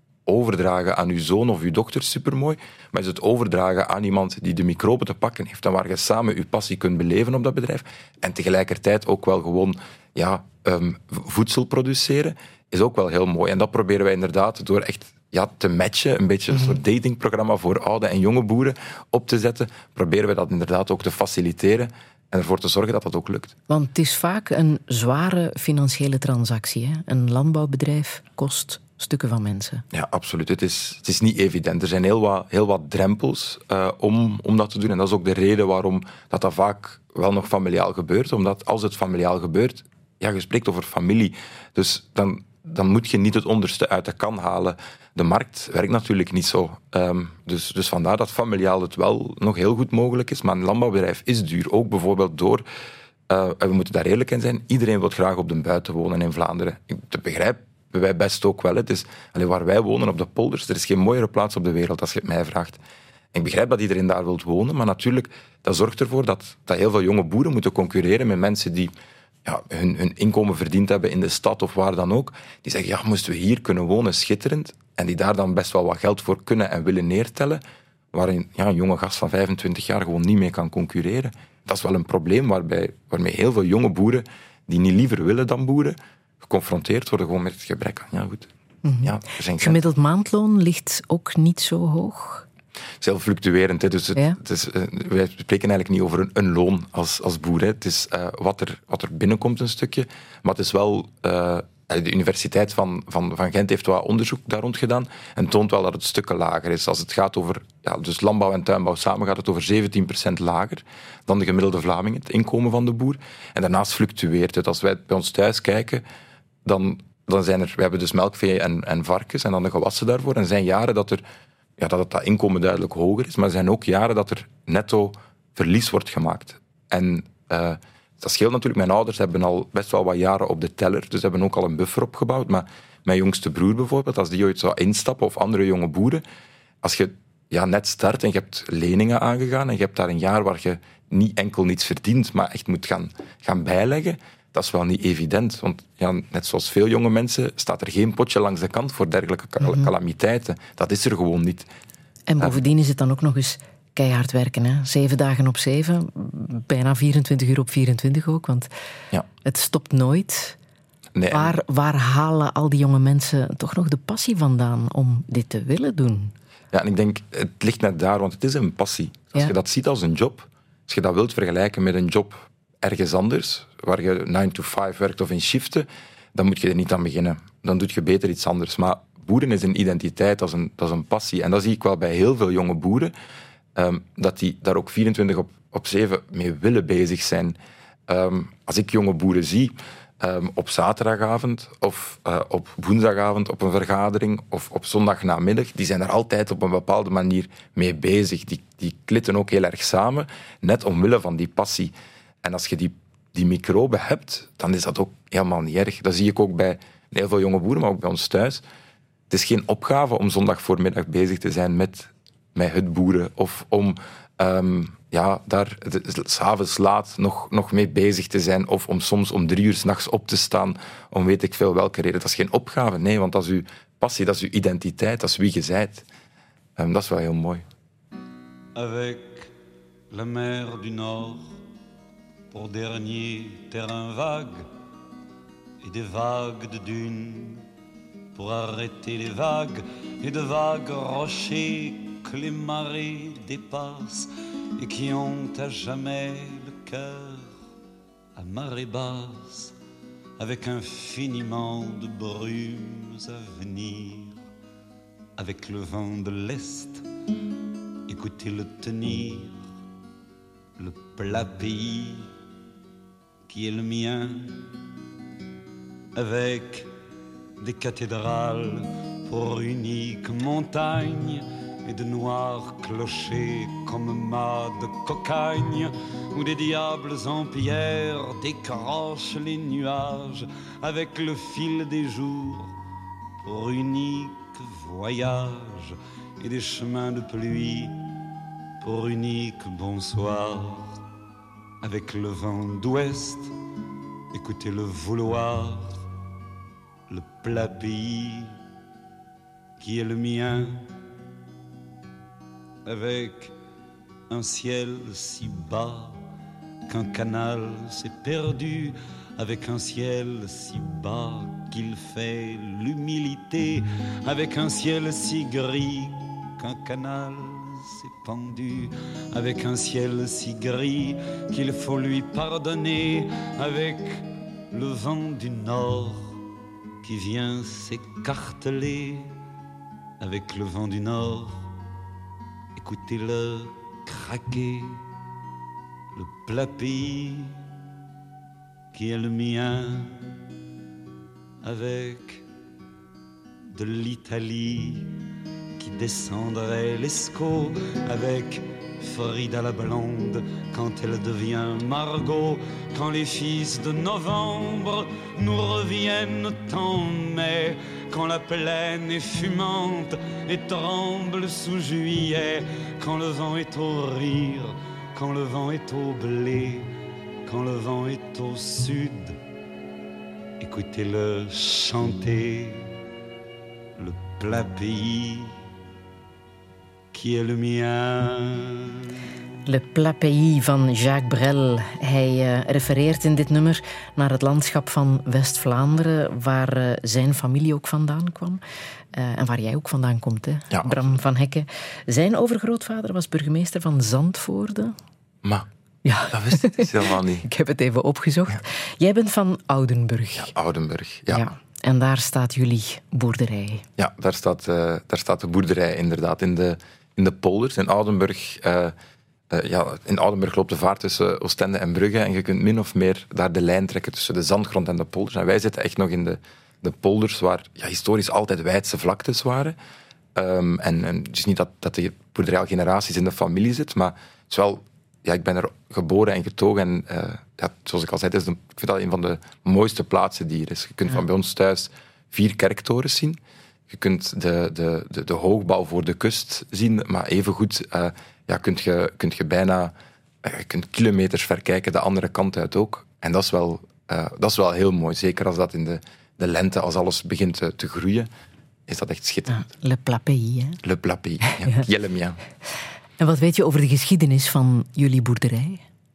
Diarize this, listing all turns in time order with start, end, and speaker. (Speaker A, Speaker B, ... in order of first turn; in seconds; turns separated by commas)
Speaker A: 0.3-23.6, Speaker B: 16.5-16.8, Speaker B: 23.7-29.8, Speaker A: 29.9-52.7, Speaker A: 53.3-62.8, Speaker A: 63.3-68.9, Speaker A: 69.5-77.6, Speaker A: 78.1-88.5, Speaker B: 88.8-92.5, Speaker A: 89.0-89.8, Speaker A: 93.0-116.0, Speaker A: 116.7-121.2, Speaker A: 121.8-136.2, Speaker A: 136.8-151.7, Speaker B: 149.6-149.9, Speaker B: 152.3-158.7, Speaker B: 159.4-160.6, Speaker A: 161.2-161.6, Speaker B: 161.3-166.3, Speaker A: 166.7-183.1, Speaker A: 183.8-208.6, Speaker A: 209.3-226.1, Speaker A: 226.8-227.7, Speaker C: 228.8-229.5, Speaker C: 230.1-231.5, Speaker C: 232.5-234.7, Speaker C: 235.8-237.6, Speaker C: 238.3-247.5, Speaker C: 248.4-249.7, Speaker C: 250.4-254.4, Speaker C: 255.4-257.0, Speaker C: 258.1-259.6, Speaker C: 260.8-262.3, Speaker C: 263.5-264.6, Speaker C: 266.1-266.9, Speaker C: 267.6-282.7, Speaker C: 283.4-288.0, Speaker C: 288.8-291.0, Speaker C: 291.8-293.5, Speaker C: 294.3-296.0, Speaker C: 297.1-298.6, Speaker C: 299.8-300.9, Speaker C: 302.9-303.6, Speaker C: 304.3-306.2, Speaker C: 306.9-326.4, Speaker C: 327.0-329.3, Speaker C: 330.2-331.7, Speaker C: 332.8-335.0, Speaker C: 336.1-337.6, Speaker C: 338.9-340.3, Speaker C: 341.6-342.4, Speaker C: 343.7-345.2, Speaker C: 345.8-366.9, Speaker C: 367.5-369.4, Speaker C: 370.6-372.9, Speaker C: 374.0-375.5, Speaker C: 377.1-379.0, Speaker B: 379.7-388.6, Speaker B: 389.1-395.0, Speaker A: 390.7-391.1, Speaker B: 396.1-400.5, Speaker A: 396.3-397.5, Speaker A: 400.3-401.5, Speaker B: 401.3-403.8, Speaker A: 404.0-408.9, Speaker A: 409.5-419.8, Speaker A: 420.4-448.3, Speaker A: 448.9-449.7, Speaker B: 449.5-450.8, Speaker A: 450.8-452.4, Speaker B: 451.5-451.8, Speaker B: 453.2-455.8